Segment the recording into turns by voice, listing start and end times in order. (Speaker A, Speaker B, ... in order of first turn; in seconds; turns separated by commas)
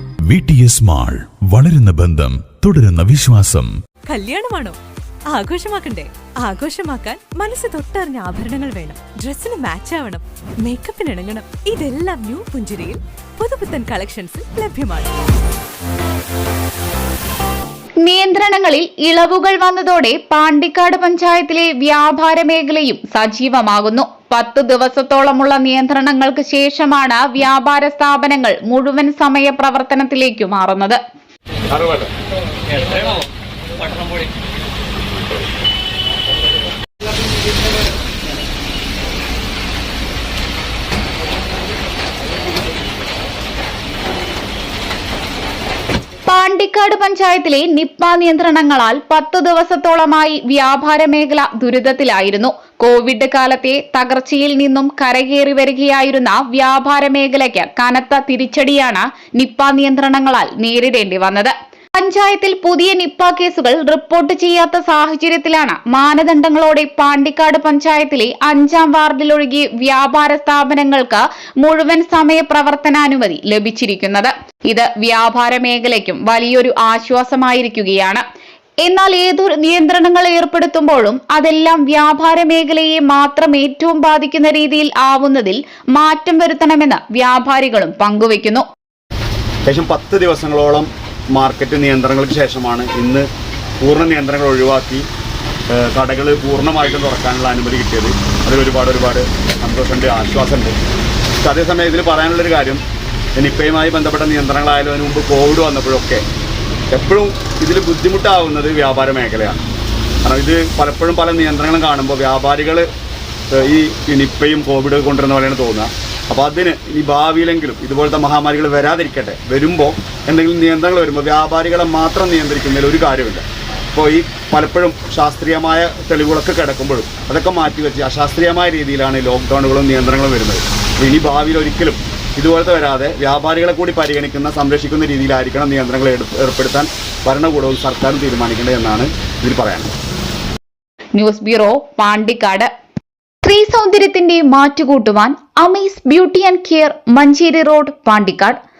Speaker A: 0.3-3.7, Speaker B: 4.1-4.8, Speaker B: 5.3-15.1, Speaker C: 18.0-31.0, Speaker D: 31.7-32.1, Speaker C: 46.2-78.2, Speaker C: 78.8-88.6, Speaker D: 89.6-93.3, Speaker D: 93.8-95.0, Speaker D: 95.7-100.8, Speaker D: 101.4-102.8, Speaker D: 103.3-106.2, Speaker D: 106.9-109.6, Speaker D: 110.2-112.9, Speaker D: 113.5-139.9, Speaker C: 141.2-142.7, Speaker C: 143.4-148.6